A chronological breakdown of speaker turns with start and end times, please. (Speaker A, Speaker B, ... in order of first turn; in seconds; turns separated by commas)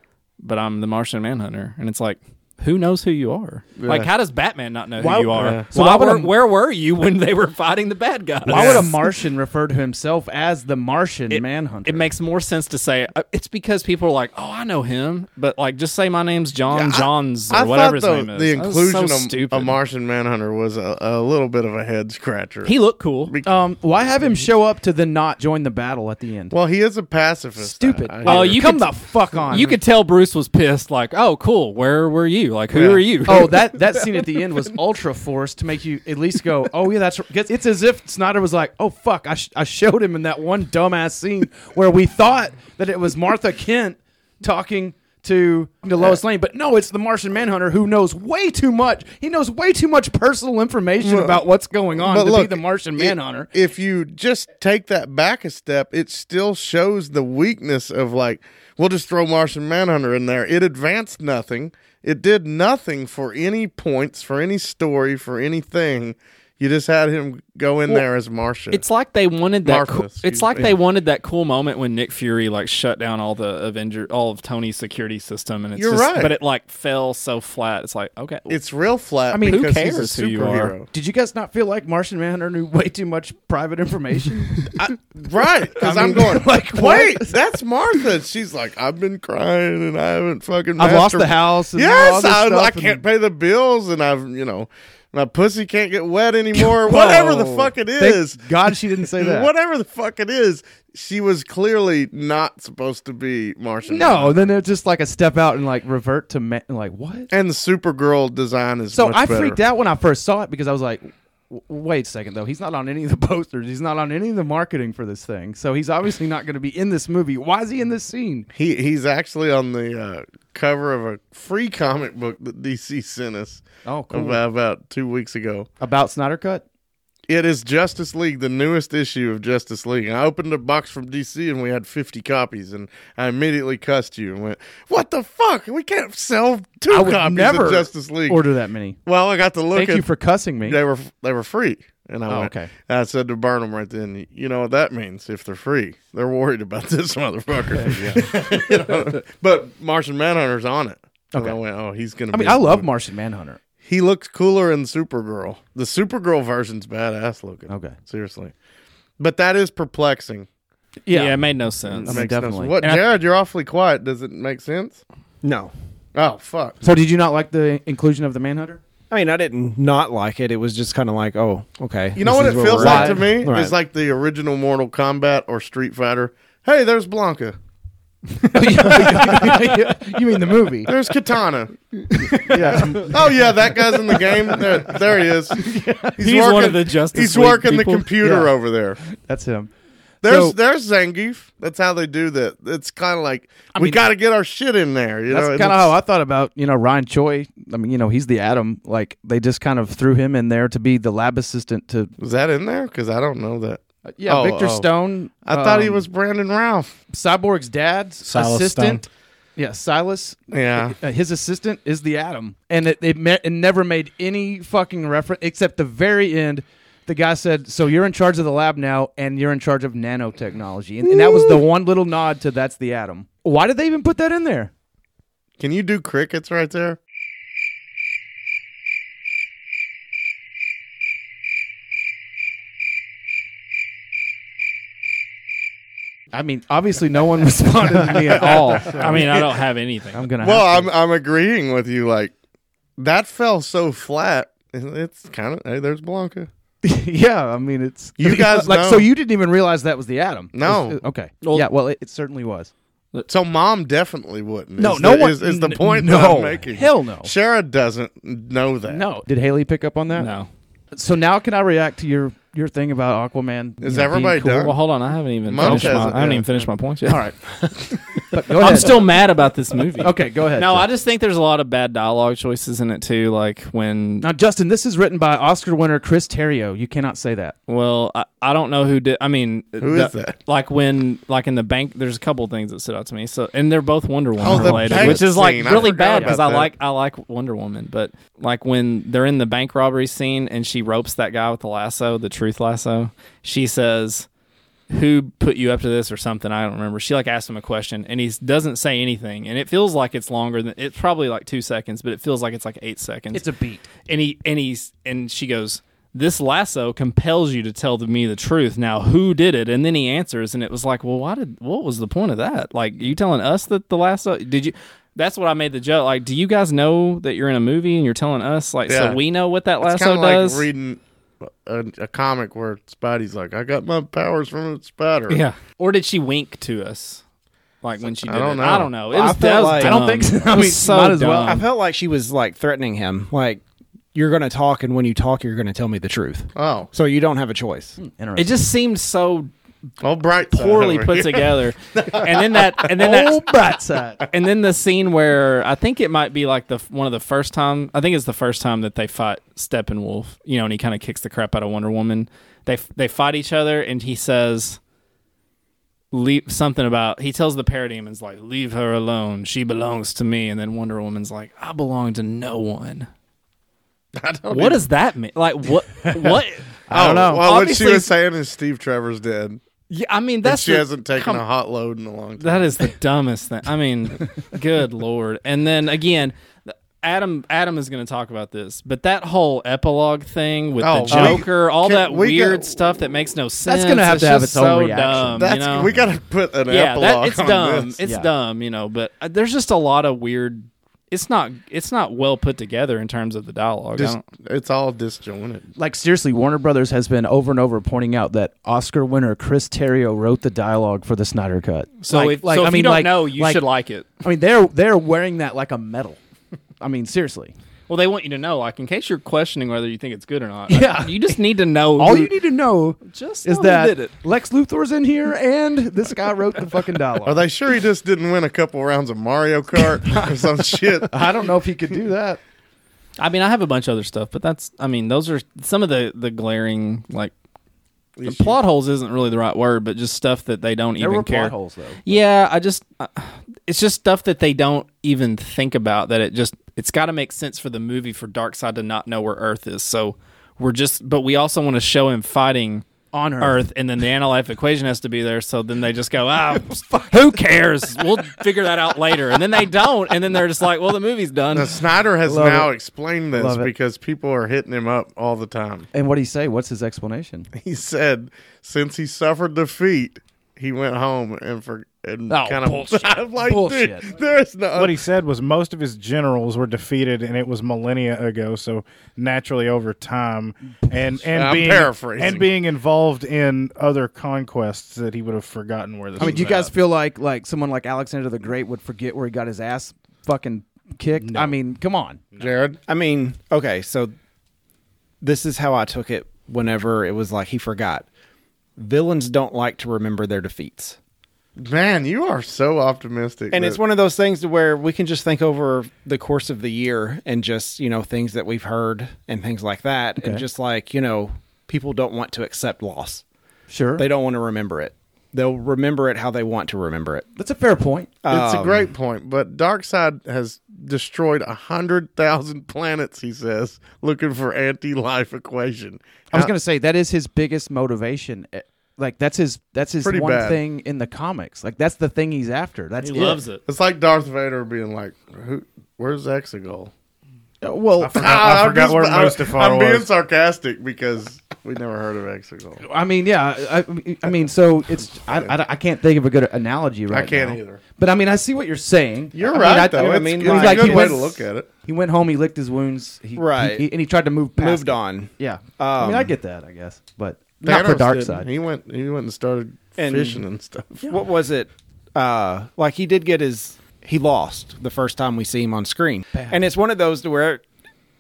Speaker A: 0.4-8.9, Speaker B: 3.8-4.1, Speaker C: 5.0-6.3, Speaker B: 5.3-5.6, Speaker C: 8.4-12.1, Speaker B: 8.5-8.9, Speaker A: 11.3-19.8, Speaker B: 16.7-23.6, Speaker A: 22.6-23.3, Speaker C: 23.4-26.5, Speaker B: 26.5-28.6, Speaker C: 27.6-29.8, Speaker A: 28.2-33.8, Speaker B: 32.7-33.0, Speaker C: 33.2-53.5, Speaker B: 51.0-51.4, Speaker B: 52.0-68.8, Speaker A: 68.7-78.6, Speaker B: 69.6-70.8, Speaker B: 75.8-76.3, Speaker B: 78.5-80.9, Speaker C: 79.3-79.6, Speaker A: 79.4-80.7, Speaker C: 80.9-84.9, Speaker B: 84.8-104.3, Speaker C: 85.8-87.3, Speaker C: 90.8-93.0, Speaker C: 96.5-99.5, Speaker C: 103.9-107.3, Speaker B: 107.3-109.6, Speaker C: 108.9-118.5, Speaker B: 118.5-125.7, Speaker C: 123.8-124.4, Speaker C: 125.8-126.6, Speaker B: 127.3-138.4, Speaker C: 136.9-139.0, Speaker B: 139.1-140.1, Speaker C: 139.7-140.8, Speaker B: 140.7-152.9, Speaker C: 142.3-142.7, Speaker C: 147.8-148.2, Speaker C: 151.3-151.6, Speaker C: 152.3-153.6, Speaker B: 153.8-158.5, Speaker C: 157.7-157.9, Speaker B: 159.2-160.5, Speaker C: 161.1-161.4, Speaker A: 161.1-162.2, Speaker B: 161.8-165.0, Speaker C: 162.0-162.8, Speaker A: 162.8-163.0, Speaker D: 165.4-165.7, Speaker B: 166.1-166.8, Speaker C: 166.8-168.8, Speaker D: 169.1-173.8, Speaker B: 172.1-177.6, Speaker C: 172.7-173.2, Speaker C: 178.4-180.9, Speaker A: 179.1-179.4, Speaker B: 180.8-189.0, Speaker C: 182.2-185.0, Speaker C: 185.5-186.2, Speaker A: 186.2-188.1, Speaker C: 188.2-189.7, Speaker B: 190.2-195.9, Speaker C: 190.2-190.6, Speaker C: 193.7-194.0, Speaker C: 195.3-202.1, Speaker B: 202.2-204.9, Speaker C: 204.1-206.1, Speaker B: 205.4-207.0, Speaker C: 207.1-224.7, Speaker E: 208.2-209.0, Speaker B: 210.5-211.0, Speaker B: 225.6-227.0, Speaker C: 236.3-239.3, Speaker A: 238.3-240.2, Speaker B: 238.9-239.4, Speaker C: 240.1-240.9, Speaker B: 240.4-242.3, Speaker B: 243.0-246.5, Speaker C: 246.8-252.7, Speaker B: 248.2-249.1, Speaker B: 250.5-251.0, Speaker A: 251.4-251.7, Speaker B: 253.3-259.0, Speaker C: 254.8-257.3, Speaker C: 258.9-260.3, Speaker A: 260.1-260.5, Speaker C: 260.9-264.7, Speaker B: 263.8-264.8, Speaker A: 264.4-274.2, Speaker B: 265.5-266.4, Speaker C: 265.6-266.1, Speaker C: 268.3-269.1, Speaker C: 270.0-270.9, Speaker C: 274.2-277.5, Speaker A: 277.7-294.3, Speaker B: 279.8-280.4, Speaker B: 284.4-286.7, Speaker C: 284.4-285.2, Speaker C: 285.8-286.4, Speaker A: 294.9-303.4, Speaker C: 303.3-303.9, Speaker A: 304.0-320.7, Speaker B: 318.9-319.2, Speaker B: 319.8-325.4, Speaker A: 325.3-327.2, Speaker A: 327.8-331.6, Speaker B: 328.0-328.9, Speaker C: 329.1-331.6, Speaker D: 329.4-330.0, Speaker D: 331.4-333.6, Speaker D: 334.1-338.0, Speaker B: 336.5-336.9, Speaker C: 338.0-338.6, Speaker A: 338.3-339.5, Speaker B: 340.0-342.9, Speaker A: 340.5-343.5, Speaker C: 343.0-344.3, Speaker A: 344.3-354.8, Speaker A: 356.1-363.1, Speaker B: 364.1-364.8, Speaker A: 364.5-366.8, Speaker C: 366.9-367.5, Speaker B: 366.9-369.6, Speaker A: 367.4-368.1, Speaker A: 369.9-371.4, Speaker B: 370.4-372.7, Speaker A: 372.4-385.9, Speaker B: 380.8-383.1, Speaker C: 381.1-381.4, Speaker C: 383.6-385.5, Speaker B: 385.3-388.0, Speaker A: 386.7-394.2, Speaker B: 393.9-395.7, Speaker C: 395.8-403.6, Speaker A: 402.0-404.1, Speaker C: 404.2-406.2, Speaker C: 406.8-407.5, Speaker A: 407.9-412.3, Speaker C: 410.7-411.3, Speaker C: 412.0-417.4, Speaker A: 413.0-414.1, Speaker B: 417.2-421.3, Speaker C: 421.0-422.4, Speaker A: 423.2-427.3, Speaker B: 428.2-428.6, Speaker A: 428.2-431.5, Speaker C: 431.0-432.2, Speaker A: 432.0-442.8, Speaker C: 443.1-443.6, Speaker A: 443.4-451.9, Speaker B: 451.5-455.9, Speaker C: 452.2-452.7, Speaker C: 453.3-453.7, Speaker C: 455.9-457.5, Speaker B: 457.6-464.9, Speaker C: 462.3-464.1, Speaker E: 464.7-476.7, Speaker B: 471.3-472.5, Speaker C: 476.2-482.2, Speaker E: 481.2-481.6, Speaker B: 482.4-482.8, Speaker D: 482.9-484.1, Speaker D: 485.2-488.1, Speaker D: 488.8-491.0, Speaker B: 491.6-493.8, Speaker D: 493.5-503.2, Speaker C: 500.2-500.4, Speaker C: 503.7-504.1, Speaker D: 504.0-507.2, Speaker C: 507.4-508.1, Speaker D: 508.2-508.9, Speaker B: 508.3-516.5, Speaker C: 516.3-523.4, Speaker B: 520.0-520.6, Speaker A: 523.0-523.6, Speaker B: 523.6-526.9, Speaker C: 527.6-528.2, Speaker E: 528.0-530.1, Speaker B: 528.2-532.8, Speaker C: 532.8-548.5, Speaker B: 535.2-535.5, Speaker B: 537.1-537.8, Speaker B: 539.3-541.7, Speaker D: 539.6-541.2, Speaker D: 543.4-543.9, Speaker D: 544.6-546.3, Speaker B: 547.6-551.0, Speaker D: 550.0-550.4, Speaker D: 551.0-557.6, Speaker C: 556.3-556.6